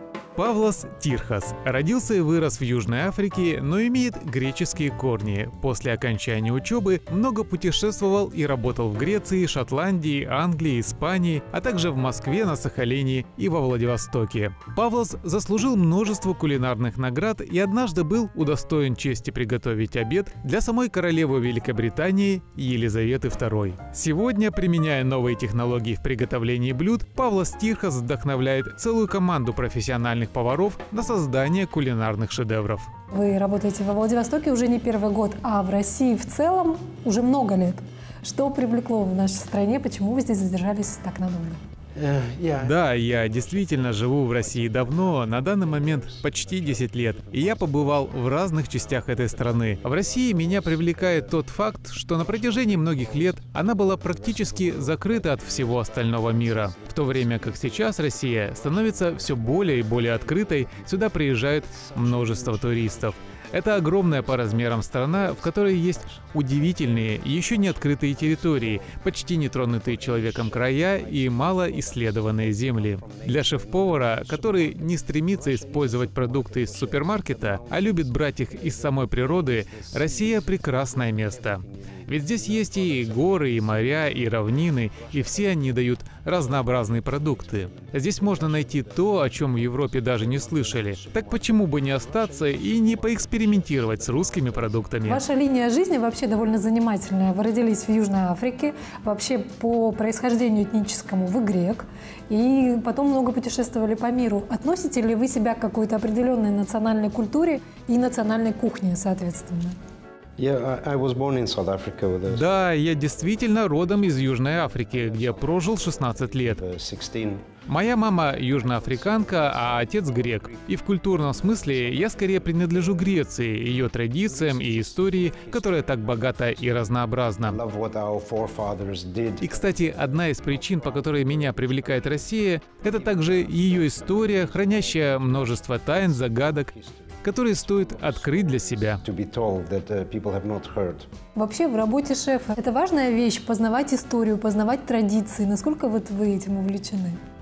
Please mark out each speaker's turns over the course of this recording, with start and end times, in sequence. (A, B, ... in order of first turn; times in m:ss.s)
0:00.4-0:32.9 A
0:33.1-0:41.6 B
0:42.0-0:42.8 C
0:42.6-1:35.2 A
1:13.5-1:14.2 C
1:16.1-1:16.6 C
1:35.0-1:49.8 B
1:50.4-1:52.4 C
1:52.3-1:56.6 A
1:56.6-1:57.5 C
1:57.6-2:07.6 A
2:07.4-2:09.6 C
2:09.4-2:16.7 A
2:17.2-2:19.0 A
2:19.0-2:21.1 C
2:21.3-2:27.2 B